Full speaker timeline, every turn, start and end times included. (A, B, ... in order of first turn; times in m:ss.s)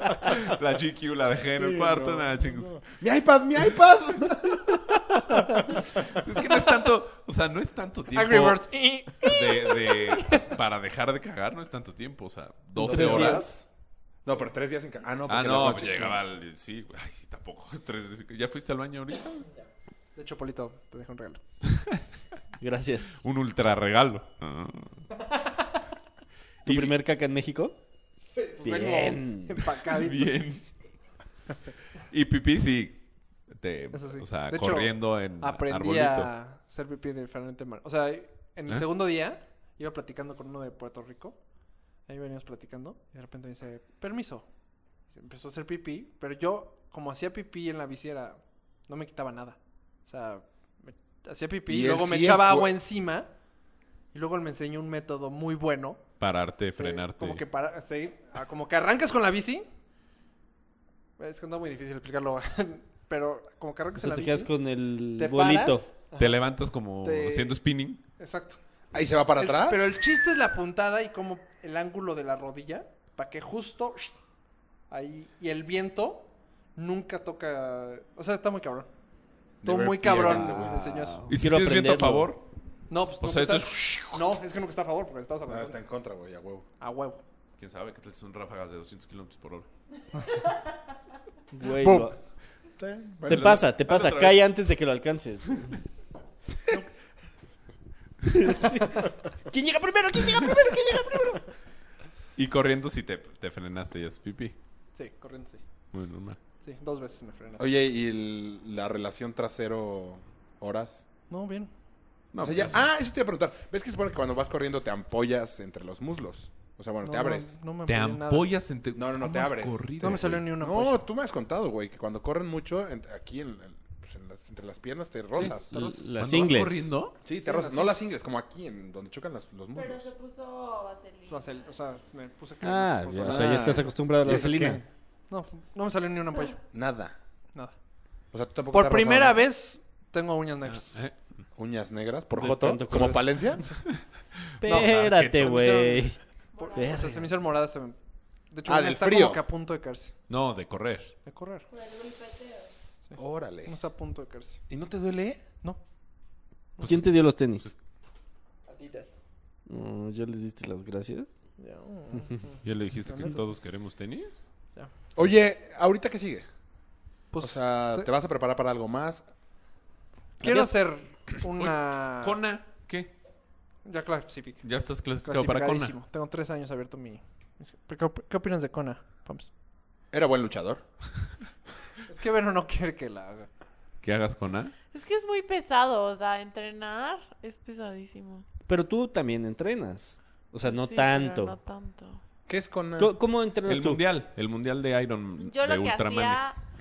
0:00.3-0:02.8 A
0:01.6-0:06.0 B
0:06.0-0:13.6 A
0:08.1-0:10.5 C
0:12.8-0:13.5 D
0:12.8-0:13.4 B
0:12.9-0:13.4 C
0:14.2-0:16.2 B
0:15.3-0:19.5 A
0:20.1-0:21.4 C
0:22.6-0:23.2 D
0:23.2-0:25.1 A
0:26.6-0:26.9 A
0:26.6-0:27.8 D
0:28.3-0:30.4 C
0:28.6-0:29.6 D
0:29.9-0:30.7 A
0:32.1-0:36.3 A
0:33.9-0:41.4 C
0:42.0-0:44.5 C
0:45.1-0:53.3 C
0:51.7-0:52.8 B
0:54.1-0:56.1 C
0:56.2-0:57.4 A
0:56.8-0:59.6 C
1:01.2-1:04.5 C
1:04.0-1:05.9 D
1:05.2-1:06.4 C
1:06.2-1:08.0 A
1:07.0-1:07.6 C
1:08.2-1:08.6 C
1:08.9-1:09.8 B
1:09.4-1:14.1 C
1:14.9-1:18.9 C
1:19.6-1:20.8 B
1:19.6-1:21.3 C
1:20.1-1:22.3 D
1:21.3-1:22.4 A
1:22.9-1:25.8 C
1:23.2-1:24.4 A
1:25.5-1:26.6 B
1:26.8-1:27.2 C
1:27.6-1:29.7 A
1:31.5-1:32.2 D
1:31.8-1:32.1 C
1:32.8-1:33.6 B
1:33.2-1:35.7 D
1:33.3-1:34.4 A
1:38.2-1:41.4 D
1:42.4-1:44.6 A
1:44.9-1:45.6 C
1:45.9-1:46.4 A
1:46.6-1:47.6 C
1:47.6-1:51.0 B
1:51.3-1:51.7 C
1:52.3-1:52.9 A
1:52.4-1:57.6 B
1:57.0-1:58.5 C
1:57.9-2:00.4 A
1:58.9-2:05.7 B
2:00.0-2:01.0 C
2:05.3-2:06.0 C
2:05.7-2:06.9 D
2:06.2-2:07.2 A
2:07.2-2:10.1 B
2:07.4-2:08.1 C
2:09.7-2:11.7 E
2:11.3-2:13.9 C
2:12.6-2:14.8 D
2:13.2-2:14.8 B
2:15.3-2:16.6 C
2:16.7-2:17.1 B
2:18.3-2:19.4 B
2:18.7-2:21.0 C
2:20.6-2:21.4 A
2:21.6-2:23.7 B
2:22.4-2:23.3 D
2:24.6-2:26.2 D
2:24.6-2:28.0 C
2:24.8-2:25.6 A
2:26.6-2:27.0 E
2:26.7-2:27.2 D
2:28.5-2:30.1 C
2:28.6-2:29.4 B
2:30.3-2:31.2 A
2:31.2-2:31.7 C
2:31.7-2:32.7 E
2:33.0-2:34.6 C
2:33.2-2:33.7 B
2:34.7-2:35.4 B
2:36.8-2:37.1 A
2:36.8-2:37.7 D
2:38.7-2:39.1 C
2:39.7-2:41.3 D
2:41.6-2:43.5 C
2:42.6-2:44.4 A
2:45.1-2:46.4 B
2:47.3-2:48.1 C
2:47.4-2:49.2 B
2:50.4-2:52.4 C
2:50.4-2:50.7 D
2:51.4-2:53.1 A
2:53.8-2:54.7 C
2:54.6-2:55.9 A
2:55.2-2:59.5 C
3:00.1-3:00.8 B
3:02.1-3:03.5 C
3:04.0-3:04.7 A
3:04.9-3:08.4 E
3:08.7-3:11.6 D
3:10.6-3:12.2 E
3:12.5-3:13.2 B
3:13.0-3:14.0 D
3:13.7-3:16.6 A
3:15.4-3:16.6 E